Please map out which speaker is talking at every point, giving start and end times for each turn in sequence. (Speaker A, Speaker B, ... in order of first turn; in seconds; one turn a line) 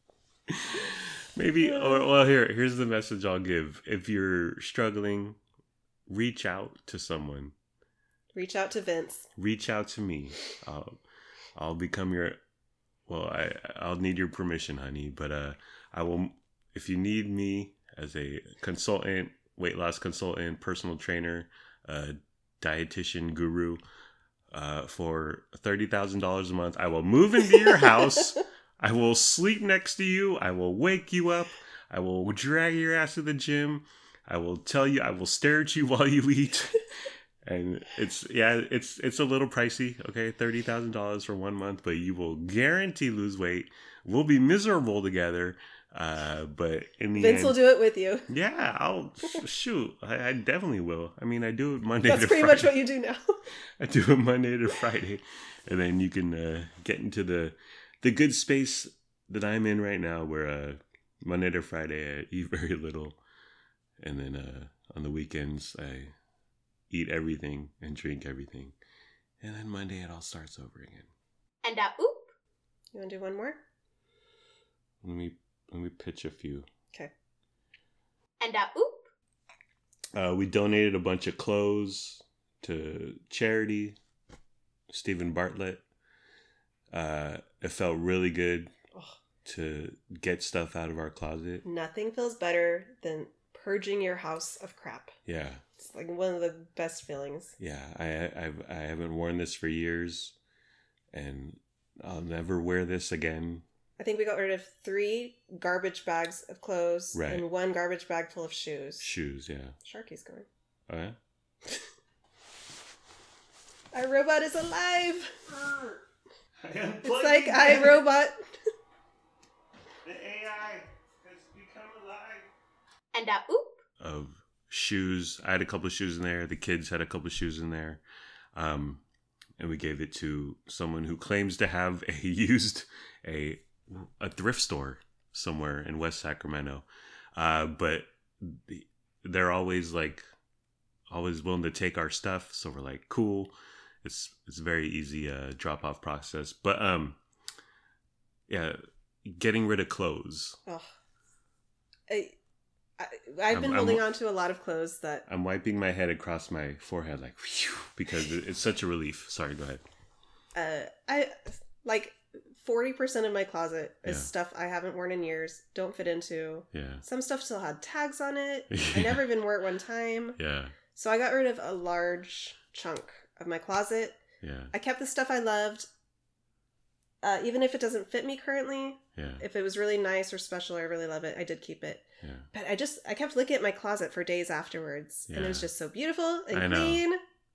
Speaker A: 0.5-5.4
Speaker B: 1.6-2.1
Speaker A: 6.1-7.5
Speaker B: 8.3-9.3
Speaker A: 9.3-10.9
Speaker A: 11.5-12.4
Speaker A: 13.1-23.8
Speaker A: 24.5-47.6
Speaker B: 47.1-48.3
Speaker A: 48.3-52.7
Speaker B: 52.0-53.4
Speaker A: 53.8-63.2
Speaker A: 64.0-66.1
Speaker A: 66.9-68.7
Speaker A: 69.4-71.1
Speaker C: 71.6-72.3
Speaker B: 72.9-73.6
Speaker A: 75.0-76.7
Speaker C: 78.4-79.1
Speaker A: 80.1-84.0
Speaker A: 84.9-85.8
Speaker A: 86.9-88.7
Speaker B: 88.9-89.2
Speaker A: 89.4-91.6
Speaker B: 91.6-95.2
Speaker A: 95.2-95.6
Speaker B: 95.8-97.5
Speaker A: 97.6-100.3
Speaker A: 101.1-103.6
Speaker B: 104.0-109.0
Speaker A: 107.1-107.4
Speaker A: 109.0-109.7
Speaker B: 109.8-110.5
Speaker A: 110.9-111.2
Speaker B: 113.9-115.4
Speaker A: 115.5-116.0
Speaker A: 116.6-118.0
Speaker B: 117.0-118.4
Speaker A: 120.0-122.5
Speaker C: 123.1-123.8
Speaker A: 124.0-128.0
Speaker A: 128.6-129.0
Speaker A: 129.6-140.2
Speaker A: 141.1-147.2
Speaker A: 148.5-150.6
Speaker B: 152.1-152.3
Speaker B: 153.0-155.2
Speaker A: 153.5-154.1
Speaker A: 155.3-159.8
Speaker B: 160.5-174.2
Speaker A: 164.0-164.3
Speaker A: 166.7-167.0
Speaker A: 168.7-169.2
Speaker A: 170.4-170.8
Speaker A: 174.4-174.7
Speaker B: 174.7-175.9
Speaker B: 177.2-187.2
Speaker A: 179.2-179.4
Speaker A: 182.2-182.5
Speaker A: 185.3-185.7
Speaker A: 186.5-187.0